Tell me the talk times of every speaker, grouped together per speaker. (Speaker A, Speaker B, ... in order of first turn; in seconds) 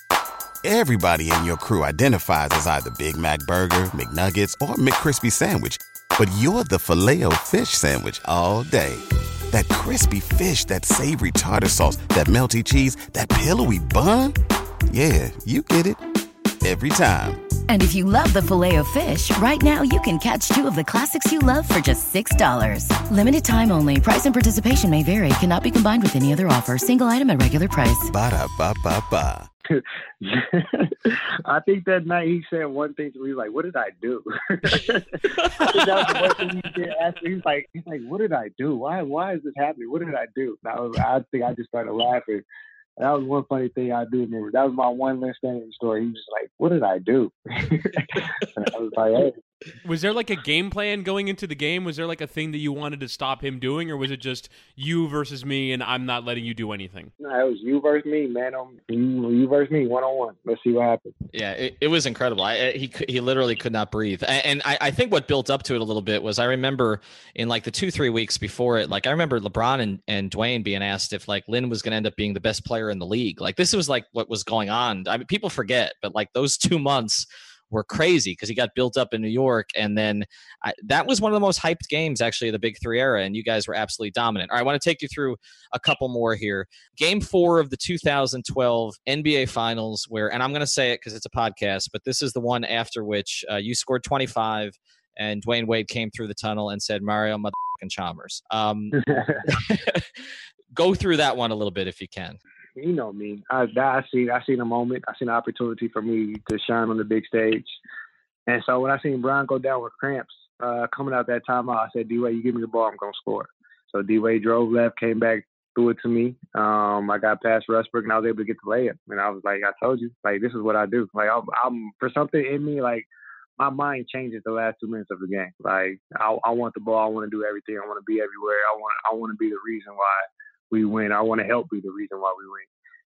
Speaker A: 0.6-14.4, 14.9-16.0, 16.6-17.4, 28.1-29.5
Speaker B: 17.7-28.1
Speaker C: 29.7-42.4, 43.0-49.4, 57.2-61.1, 99.0-99.4, 102.8-107.8, 108.5-123.1, 123.6-132.7
Speaker D: 35.4-36.3, 61.3-100.1, 100.7-102.4
Speaker E: 49.9-57.1